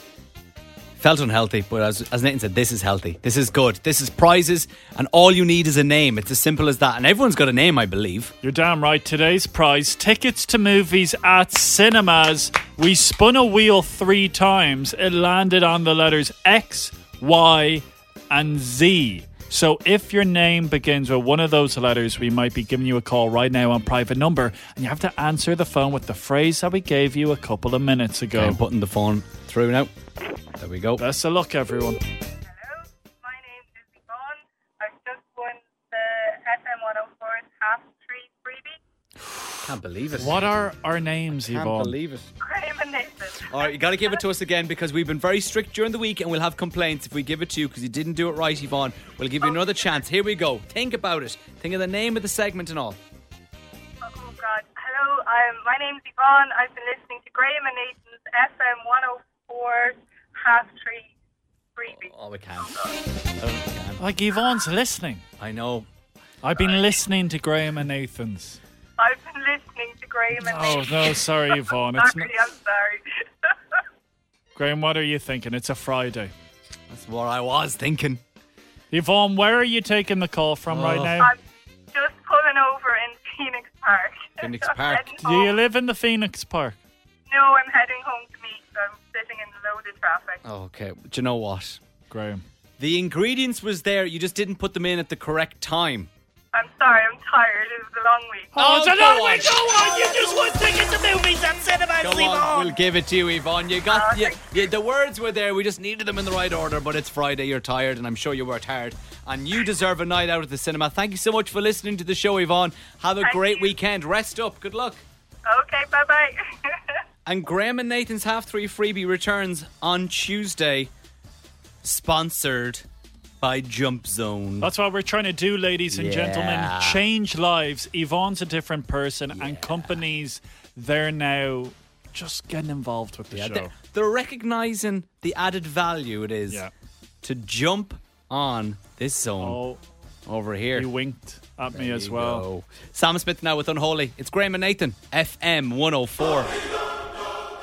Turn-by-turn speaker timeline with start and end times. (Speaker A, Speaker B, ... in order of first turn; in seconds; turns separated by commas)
Speaker A: 1.0-8.3, Speaker B: 8.4-28.6, Speaker A: 28.3-29.9, Speaker A: 30.6-31.0, Speaker B: 31.0-32.0, Speaker C: 32.5-38.8, Speaker A: 39.6-40.5, Speaker B: 40.1-41.9, Speaker A: 41.5-42.3, Speaker C: 42.4-44.0, Speaker A: 43.5-53.0, Speaker C: 49.4-49.8, Speaker C: 54.0-61.1, Speaker C: 61.8-62.1, Speaker A: 61.9-62.8, Speaker A: 63.4-64.0, Speaker B: 64.0-65.2, Speaker A: 65.4-65.9, Speaker B: 66.4-68.6, Speaker C: 69.0-73.5, Speaker B: 70.4-72.3, Speaker B: 74.5-76.3, Speaker A: 76.9-78.2, Speaker B: 78.9-81.3, Speaker A: 80.7-81.2, Speaker C: 81.9-85.5, Speaker A: 84.4-85.1, Speaker B: 85.2-86.8, Speaker C: 87.3-90.4, Speaker A: 90.4-91.8, Speaker B: 92.1-92.4, Speaker A: 92.8-96.1, Speaker C: 96.5-98.5, Speaker B: 98.5-102.5, Speaker A: 98.6-100.2, Speaker A: 102.0-115.0, Speaker C: 103.9-104.5, Speaker C: 113.2-113.7, Speaker C: 115.5-117.0, Speaker A: 117.2-120.9, Speaker A: 121.8-122.8, Speaker A: 123.4-124.7, Speaker B: 124.6-133.7, Speaker A: 125.9-127.0, Speaker A: 129.3-129.9, Speaker A: 133.3-136.6, Speaker A: 137.2-139.6, Speaker B: 139.4-139.8, Speaker A: 140.2-140.9, Speaker B: 140.7-142.4, Speaker A: 141.7-146.5